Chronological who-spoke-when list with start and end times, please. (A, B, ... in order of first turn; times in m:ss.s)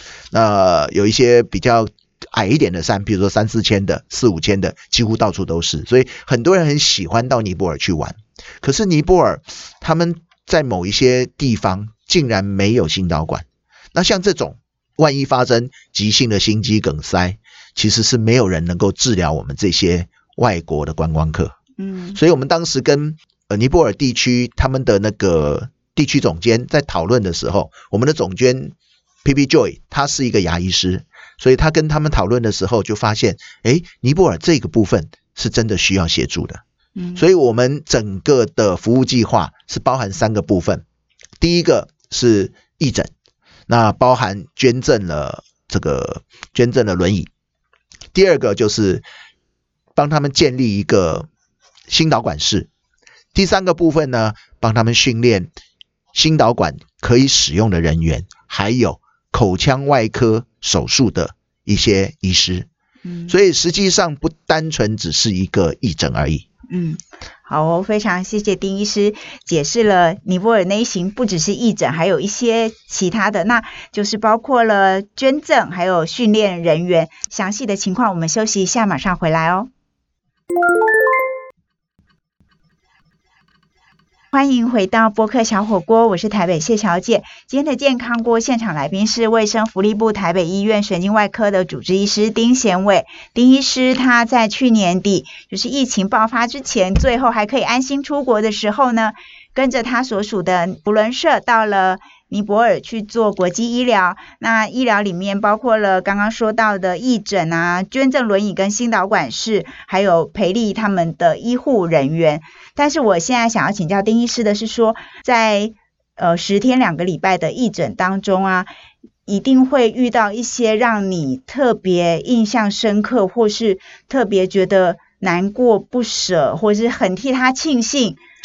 0:00.3-0:21.5 A
0:21.8-0:22.2 B
0:22.1-0:36.6 A
0:37.0-0:37.2 B
0:37.2-0:40.8 A
0:41.4-0:43.1 A
0:43.7-0:47.3 A
0:48.1-0:49.0 A
0:50.0-0:51.3 A
0:51.9-0:52.7 A
0:53.3-0:55.5 A
0:56.1-1:02.7 A
1:03.0-1:03.3 B
1:03.3-1:06.4 A
1:06.7-1:19.7 B
1:24.3-1:58.7 B
1:59.2-2:08.2 B